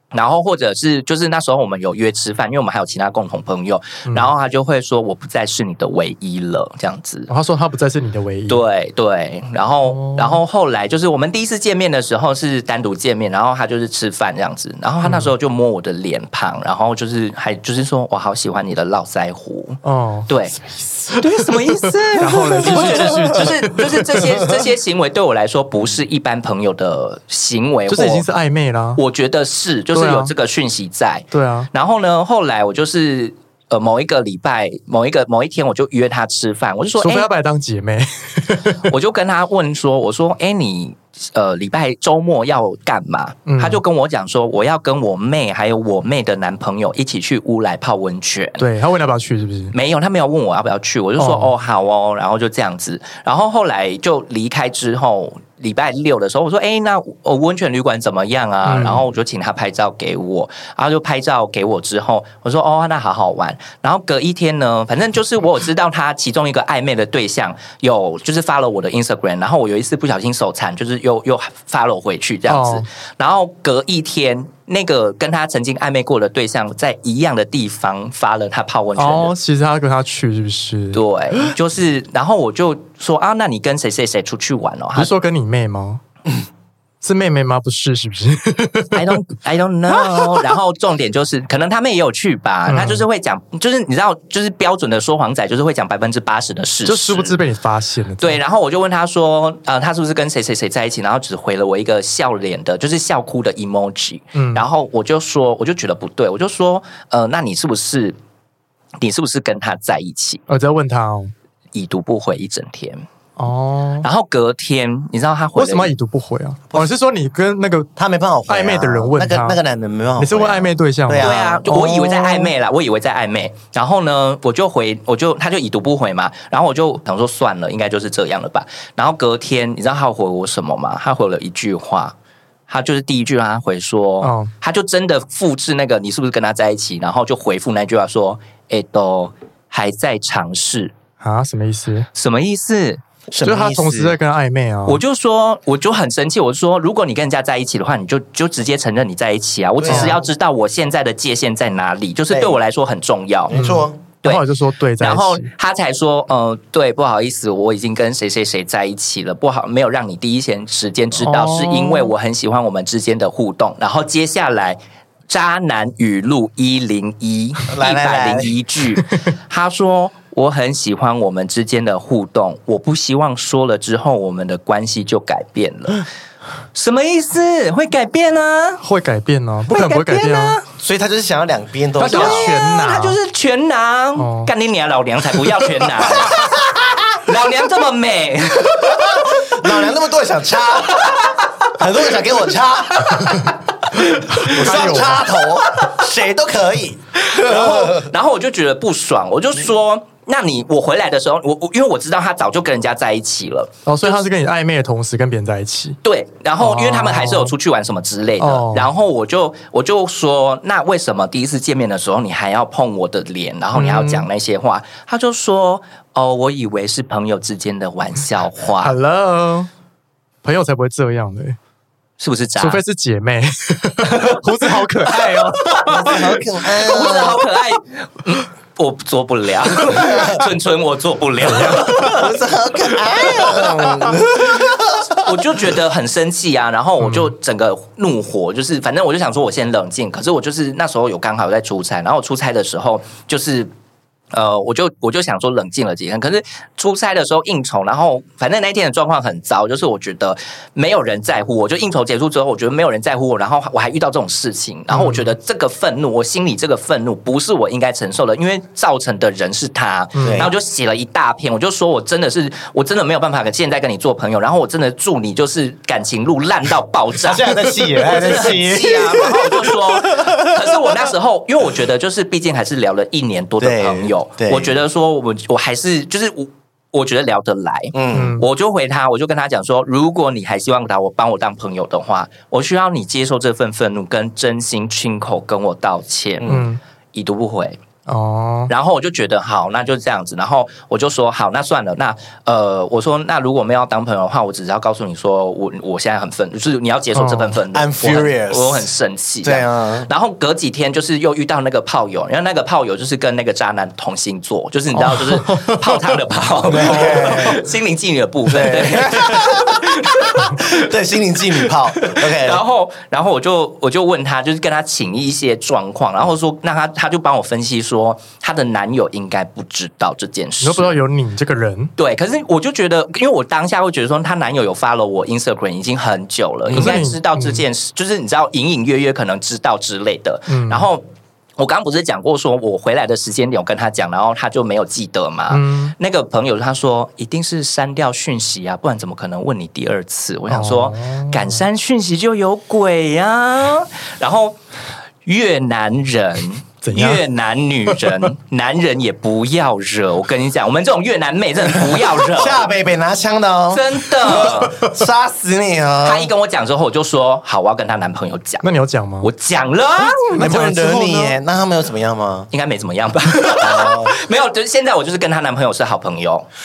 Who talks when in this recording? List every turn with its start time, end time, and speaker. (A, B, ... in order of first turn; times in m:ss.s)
0:00.1-0:07.3 A
0:04.1-0:04.3 B
0:07.3-0:08.6 B
0:08.5-0:20.6 A
0:09.9-0:10.4 B
0:15.0-0:15.3 B
0:19.8-0:20.3 B
0:20.7-0:21.2 C
0:21.2-0:28.2 A
0:22.1-0:24.4 B
0:22.6-0:23.4 C
0:27.9-0:29.0 B
0:29.0-0:37.3 A
0:29.9-0:30.3 B
0:31.3-0:31.7 B
0:37.0-0:38.9 B
0:38.8-0:48.6 A
0:43.5-0:43.8 B
0:48.6-0:49.8 B
0:49.7-1:19.3 A
0:51.2-0:51.5 B
0:58.6-0:59.1 B
1:12.5-1:12.9 B
1:19.0-1:21.5 B
1:20.9-1:25.1 A
1:25.0-1:26.0 B
1:27.0-1:29.2 B
1:28.9-1:37.4 A
1:30.0-1:30.4 B
1:32.7-1:33.1 B
1:36.8-1:38.4 B
1:38.2-1:48.2 A
1:44.4-1:44.6 B
1:49.0-1:50.4 A
1:50.5-1:51.3 B
1:51.7-1:53.0 A
1:53.4-1:54.1 B
1:54.0-1:55.9 A
1:55.6-1:57.9 B
1:58.0-2:01.6 C
1:58.5-1:59.6 B
2:00.2-2:02.5 B
2:01.2-2:12.2 A
2:12.7-2:20.9 A
2:14.2-2:14.5 B
2:21.2-2:22.1 B
2:22.2-2:23.0 A
2:23.3-2:24.2 C
2:23.4-2:25.0 B
2:24.9-2:33.6 A
2:29.8-2:30.2 C
2:29.9-2:30.2 B
2:32.3-2:32.6 C
2:33.5-2:34.0 C
2:33.5-2:35.5 B
2:35.0-2:44.8 A
2:41.2-2:42.1 B
2:45.3-2:56.0 A
2:47.7-2:48.6 C
2:56.8-2:58.8 A
2:58.8-3:00.6 B
2:59.7-3:00.7 A
3:00.8-3:02.5 C
3:02.0-3:03.2 B
3:02.1-3:09.5 A
3:04.2-3:04.5 B
3:06.0-3:07.1 C
3:08.8-3:13.6 C
3:13.2-3:15.3 B
3:14.4-3:18.1 C
3:14.8-3:15.1 A
3:17.2-3:24.2 A
3:23.9-3:26.0 B
3:26.0-3:39.0 A
3:26.6-3:27.5 B
3:28.4-3:28.9 B
3:33.8-3:34.3 B
3:38.8-3:39.7 B
3:40.4-3:41.6 B
3:42.2-3:42.8 A
3:42.6-3:46.2 B
3:44.1-3:52.4 A
3:45.9-3:47.5 C
3:50.0-3:50.4 C
3:51.5-3:52.2 B
3:51.7-3:55.8 C
3:53.1-3:54.1 A
3:53.6-3:54.1 B
3:55.2-4:03.7 A
3:57.0-3:57.3 B
4:04.3-4:47.8 A
4:14.9-4:15.3 B
4:20.2-4:20.5 B
4:20.2-4:20.5 C
4:27.2-4:31.1 C
4:33.6-4:34.8 C
4:37.9-4:38.4 C
4:38.1-4:38.5 B
4:46.4-4:46.7 C
4:46.5-4:46.8 B
4:48.1-4:48.7 B
4:48.7-5:10.8 A
4:57.2-4:57.6 B
4:57.7-4:58.9 C
4:59.4-5:00.1 C
5:04.9-5:06.0 B
5:06.7-5:07.6 C
5:06.7-5:07.6 B
5:08.5-5:12.6 C
5:11.7-5:21.0 A
5:20.6-5:21.9 B
5:22.0-5:31.0 A
5:26.7-5:27.6 B
5:30.5-5:30.9 B
5:31.6-5:44.6 A
5:35.5-5:35.9 B
5:40.5-5:41.6 B
5:45.2-5:52.7 A
5:46.8-5:47.2 B
5:52.2-5:56.3 C
5:53.7-5:54.8 A
5:54.4-5:54.9 B
5:56.0-5:58.6 A
5:58.6-5:59.3 B
5:59.2-6:00.5 A
6:00.2-6:01.4 B
6:00.3-6:02.5 C
6:02.5-6:06.5 A
6:03.5-6:04.2 C